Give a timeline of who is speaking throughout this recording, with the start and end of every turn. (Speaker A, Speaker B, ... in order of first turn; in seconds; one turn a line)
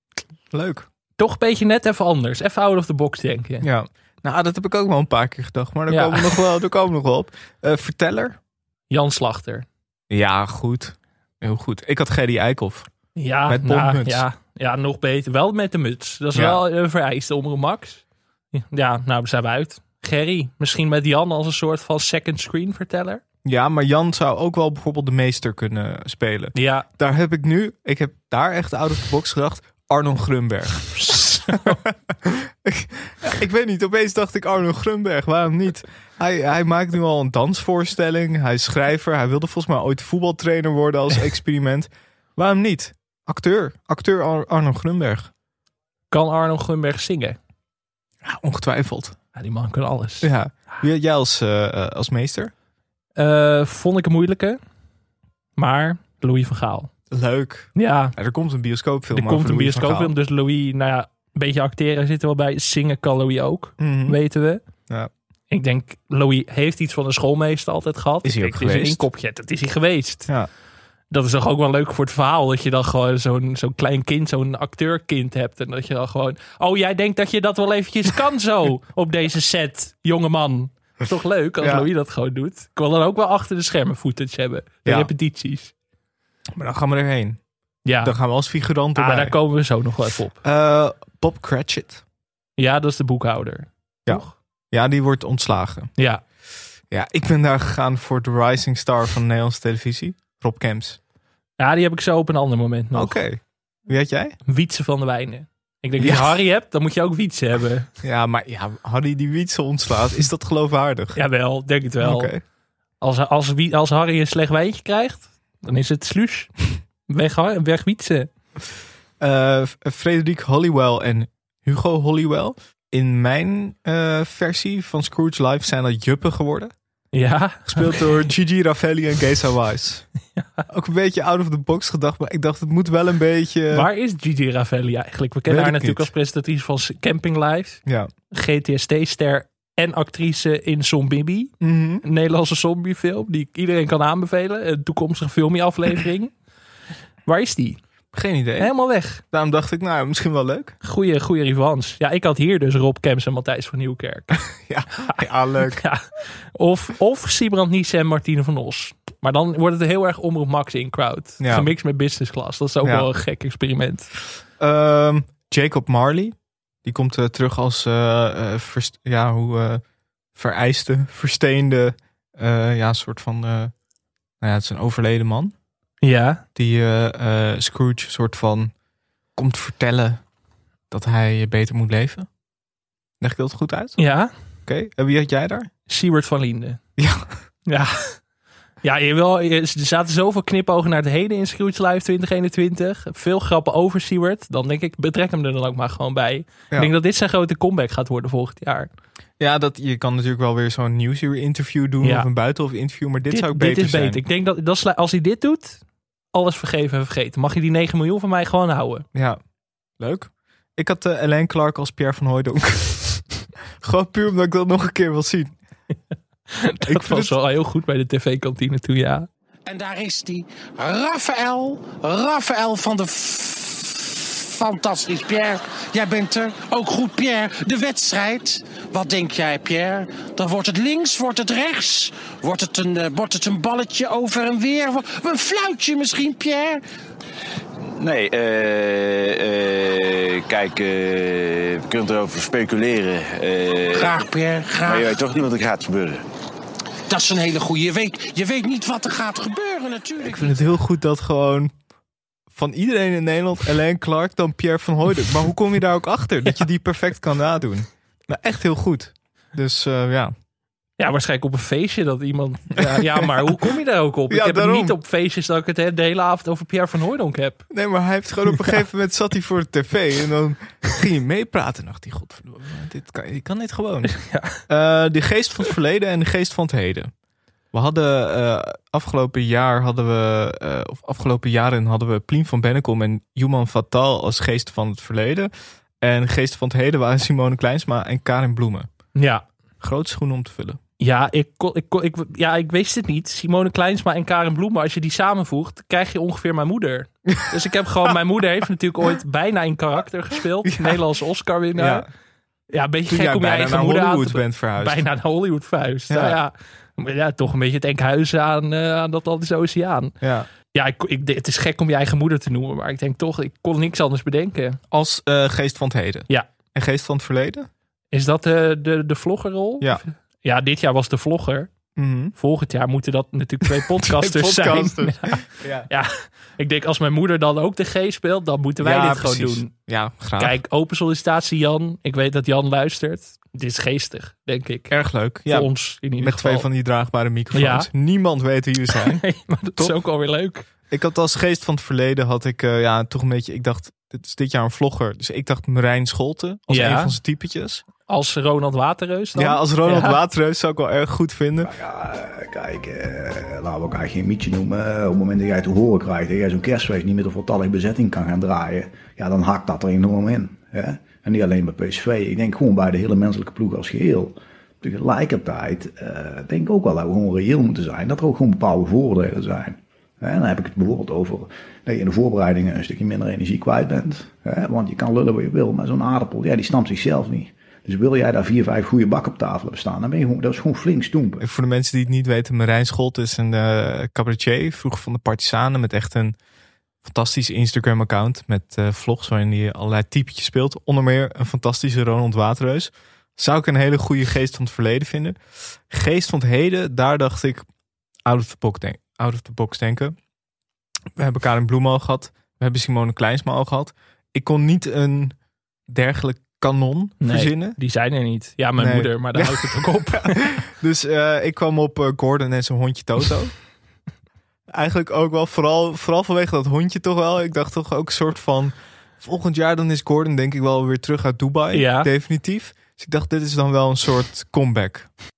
Speaker A: 0.5-0.9
Speaker B: 1.2-3.7
Speaker A: 3.6-8.4
Speaker B: 5.9-6.4
Speaker B: 8.9-9.7
Speaker A: 10.1-12.9
Speaker B: 13.2-23.2
Speaker A: 13.5-14.2
Speaker A: 16.3-16.6
Speaker A: 23.4-45.3
Speaker B: 26.6-26.9
Speaker B: 30.9-31.8
Speaker B: 46.1-47.4
Speaker A: 48.2-49.2
Speaker B: 49.4-50.3
Speaker A: 50.2-52.5
Speaker B: 53.2-54.6
Speaker B: 55.6-56.9
Speaker A: 57.1-60.1
Speaker B: 57.8-58.1
Speaker B: 59.1-64.6
Speaker A: 63.8-64.2
Speaker B: 65.5-70.3
Speaker A: 68.2-69.0
Speaker B: 71.1-85.7
Speaker A: 81.6-81.9
Speaker A: 84.8-85.1
Speaker A: 86.6-87.4
Speaker B: 87.8-88.2
Speaker A: 88.0-89.3
Speaker B: 89.0-90.4
Speaker A: 90.4-92.0
Speaker B: 92.6-94.3
Speaker A: 94.1-95.9
Speaker B: 96.0-96.2
Speaker A: 96.9-101.0
Speaker B: 101.6-103.2
Speaker A: 102.9-104.4
Speaker B: 104.5-107.9
Speaker A: 106.0-106.4
Speaker A: 108.0-111.2
Speaker B: 111.2-112.3
Speaker A: 112.0-112.4
Speaker B: 113.0-116.5
Speaker B: 117.1-118.3
Speaker A: 119.2-126.7
Speaker B: 127.1-128.1
Speaker A: 127.7-130.1
Speaker B: 130.4-130.6
Speaker A: 130.7-133.9
Speaker B: 133.7-146.3
Speaker A: 135.5-136.1
Speaker A: 137.8-138.1
Speaker A: 141.6-142.0
Speaker B: 147.3-147.8
Speaker A: 148.1-148.7
Speaker B: 148.6-149.2
Speaker A: 149.2-150.8
Speaker B: 150.8-154.4
Speaker A: 154.6-155.8
Speaker B: 155.7-164.1
Speaker A: 161.4-161.7
Speaker A: 162.8-163.1
Speaker A: 164.6-169.8
Speaker A: 170.3-173.7
Speaker A: 174.4-175.5
Speaker B: 176.0-176.4
Speaker A: 176.6-178.7
Speaker A: 179.4-180.2
Speaker A: 180.9-182.3
Speaker A: 183.2-184.0
Speaker B: 184.0-184.3
Speaker A: 184.7-185.7
Speaker B: 185.9-186.8
Speaker A: 187.0-187.3
Speaker B: 187.7-188.2
Speaker B: 188.8-198.9
Speaker A: 199.4-204.2
Speaker B: 202.0-202.3
Speaker B: 203.3-205.8
Speaker B: 206.3-209.1
Speaker A: 209.1-209.4
Speaker A: 210.0-213.2
Speaker A: 213.8-215.6
Speaker B: 216.5-219.3
Speaker A: 216.8-217.3
Speaker C: 219.7-236.8
Speaker D: 237.9-244.2
Speaker C: 243.9-245.2
Speaker D: 244.8-246.2
Speaker C: 247.1-250.6
Speaker A: 250.2-251.7
Speaker A: 252.5-260.3
Speaker B: 261.0-267.7
Speaker A: 262.8-263.5
Speaker A: 264.3-265.0
Speaker A: 267.7-274.1
Speaker B: 274.1-274.6
Speaker A: 274.6-277.1
Speaker A: 277.7-288.9
Speaker B: 289.1-289.4
Speaker A: 289.8-290.8
Speaker B: 291.0-302.1
Speaker A: 300.6-301.0
Speaker A: 301.8-302.1
Speaker B: 302.7-310.1
Speaker A: 303.1-305.1
Speaker A: 306.1-306.4
Speaker A: 310.2-310.5
Speaker B: 310.7-314.8
Speaker A: 314.9-317.7
Speaker B: 318.1-321.7
Speaker A: 322.0-322.3
Speaker B: 322.4-329.7
Speaker A: 323.6-325.9
Speaker A: 328.8-330.6
Speaker B: 330.4-334.9
Speaker A: 334.9-339.2
Speaker B: 335.5-336.7
Speaker B: 337.5-337.9
Speaker B: 338.9-340.7
Speaker A: 340.9-347.9
Speaker B: 346.7-347.2
Speaker B: 348.1-350.2
Speaker A: 349.4-351.7
Speaker E: 351.6-381.4
Speaker A: 381.4-386.4
Speaker A: 387.0-397.6
Speaker A: 398.2-400.2
Speaker A: 401.2-405.4
Speaker A: 405.9-407.8
Speaker B: 407.2-410.5
Speaker A: 408.8-413.5
Speaker A: 414.7-425.1
Speaker B: 421.7-422.1